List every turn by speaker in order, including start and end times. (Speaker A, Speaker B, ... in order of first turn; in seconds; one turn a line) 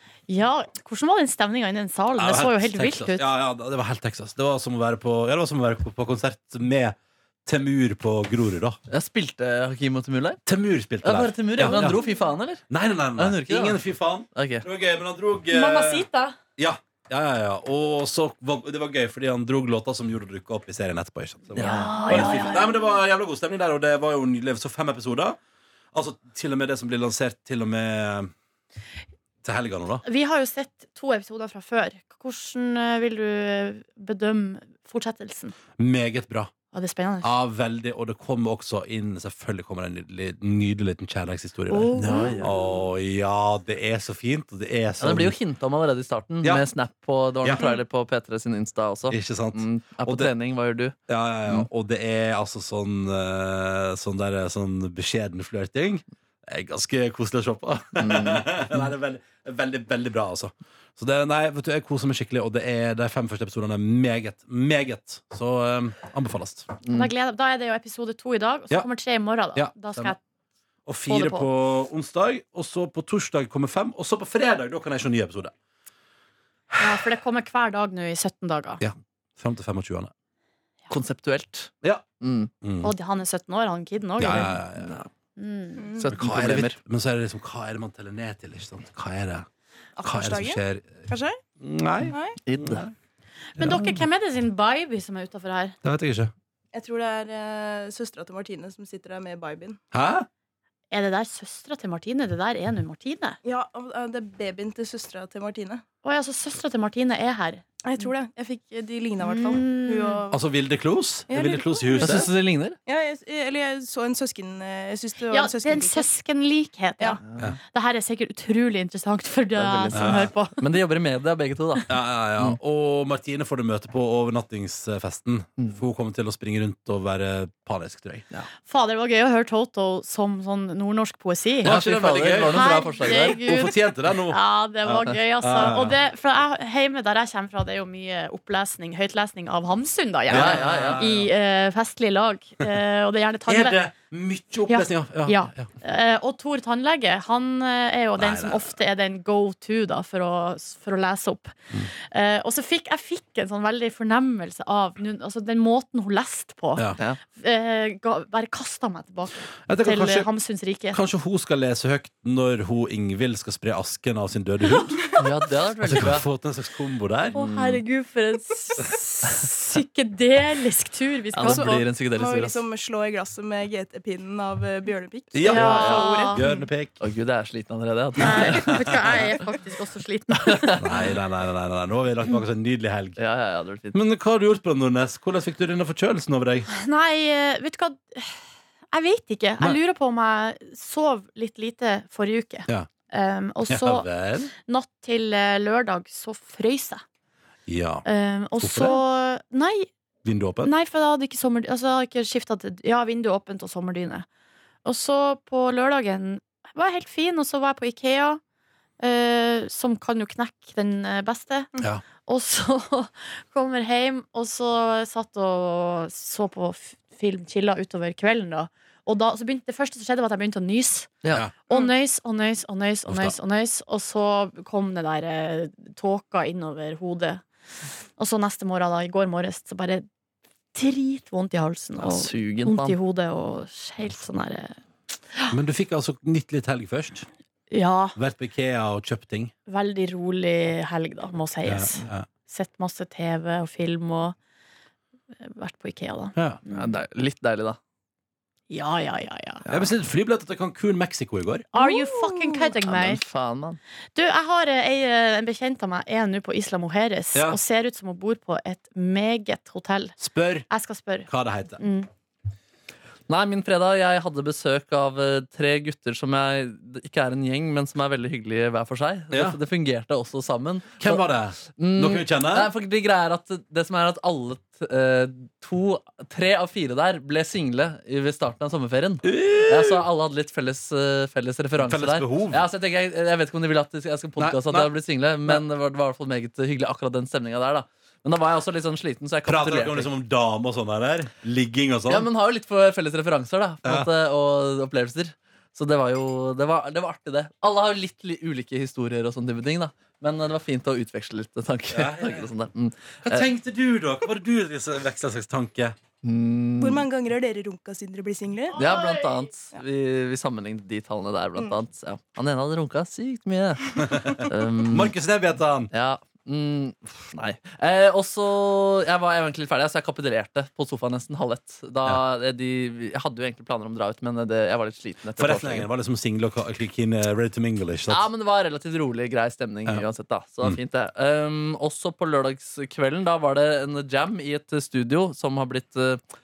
Speaker A: 0.3-3.2
Speaker B: 2.2-8.8
Speaker C: 8.9-10.4
Speaker B: 10.4-12.0
Speaker C: 11.0-12.6
Speaker B: 12.7-16.1
Speaker C: 13.2-13.8
Speaker C: 14.3-14.6
Speaker A: 15.5-16.4
Speaker B: 16.6-25.4
Speaker C: 21.5-22.4
Speaker A: 21.6-22.8
Speaker B: 25.9-28.3
Speaker B: 29.4-30.0
Speaker A: 30.0-35.5
Speaker B: 35.8-36.5
Speaker A: 36.7-37.3
Speaker B: 37.2-45.3
Speaker A: 41.7-42.5
Speaker C: 41.9-42.5
Speaker C: 45.0-50.9
Speaker B: 47.4-47.7
Speaker B: 49.1-50.3
Speaker B: 51.1-66.7
Speaker C: 58.0-58.5
Speaker C: 66.8-67.1
Speaker A: 66.9-70.2
Speaker B: 69.5-70.1
Speaker B: 70.9-75.5
Speaker A: 71.1-71.5
Speaker B: 76.7-77.1
Speaker A: 76.8-78.8
Speaker B: 78.8-80.1
Speaker C: 80.9-82.5
Speaker B: 82.6-82.9
Speaker A: 82.8-84.6
Speaker B: 84.2-85.0
Speaker C: 84.8-85.1
Speaker A: 85.3-86.0
Speaker D: 85.8-86.1
Speaker C: 86.0-86.8
Speaker B: 86.1-89.5
Speaker D: 90.0-91.4
Speaker B: 90.0-91.0
Speaker B: 91.6-92.9
Speaker D: 92.1-92.4
Speaker C: 92.5-92.9
Speaker A: 93.5-95.8
Speaker B: 93.6-94.0
Speaker B: 95.8-96.3
Speaker D: 96.7-99.8
Speaker B: 99.9-100.3
Speaker A: 100.9-103.4
Speaker D: 103.4-105.8
Speaker A: 106.0-107.6
Speaker D: 107.8-110.4
Speaker A: 109.2-110.2
Speaker B: 110.3-112.3
Speaker D: 111.3-112.3
Speaker C: 112.0-112.8
Speaker D: 112.8-116.1
Speaker A: 115.3-120.6
Speaker C: 117.2-117.6
Speaker C: 119.5-122.6
Speaker B: 119.9-120.3
Speaker B: 121.9-128.2
Speaker A: 128.7-131.8
Speaker C: 131.6-133.4
Speaker B: 131.6-136.0
Speaker A: 132.5-143.8
Speaker B: 140.3-141.3
Speaker C: 140.3-141.1
Speaker B: 143.4-145.7
Speaker A: 144.7-161.0
Speaker B: 148.2-148.7
Speaker B: 159.7-160.3
Speaker B: 160.9-165.1
Speaker C: 165.2-166.3
Speaker B: 165.8-167.4
Speaker A: 167.3-171.8
Speaker C: 167.3-167.8
Speaker C: 171.3-172.6
Speaker D: 171.3-176.6
Speaker B: 175.3-177.0
Speaker A: 175.4-176.4
Speaker C: 177.0-179.2
Speaker A: 178.2-181.1
Speaker B: 178.3-179.0
Speaker C: 180.4-181.0
Speaker B: 180.8-183.2
Speaker C: 183.2-184.0
Speaker B: 183.9-186.7
Speaker A: 186.7-194.1
Speaker B: 193.7-194.5
Speaker A: 194.6-197.0
Speaker B: 197.7-198.0
Speaker A: 198.0-199.9
Speaker B: 198.6-199.0
Speaker B: 200.2-200.7
Speaker A: 200.6-204.2
Speaker A: 204.8-208.4
Speaker A: 209.0-211.7
Speaker A: 212.2-221.2
Speaker A: 221.7-227.4
Speaker B: 223.1-223.3
Speaker A: 228.2-230.1
Speaker A: 230.7-234.8
Speaker C: 232.0-232.9
Speaker B: 235.5-237.2
Speaker A: 237.7-238.2
Speaker B: 238.2-239.5
Speaker A: 239.7-244.3
Speaker B: 241.7-242.3
Speaker A: 245.4-246.8
Speaker C: 246.7-247.8
Speaker A: 248.7-249.6
Speaker B: 249.7-251.7
Speaker A: 251.7-253.2
Speaker D: 251.8-252.6
Speaker C: 252.8-253.8
Speaker A: 254.1-260.1
Speaker B: 257.3-257.6
Speaker B: 260.2-260.7
Speaker A: 260.7-262.1
Speaker B: 261.3-261.8
Speaker C: 263.3-271.2
Speaker B: 269.3-269.6
Speaker B: 271.0-272.7
Speaker C: 271.8-290.1
Speaker B: 279.2-280.0
Speaker B: 281.8-282.6
Speaker B: 284.4-284.9
Speaker B: 289.4-292.3
Speaker C: 292.1-303.5
Speaker B: 301.9-302.5
Speaker B: 303.2-305.9
Speaker C: 306.2-307.0
Speaker D: 306.8-309.8
Speaker C: 308.7-315.1
Speaker A: 308.8-309.2
Speaker B: 314.0-315.9
Speaker C: 315.9-325.9
Speaker B: 325.4-328.3
Speaker C: 328.1-336.2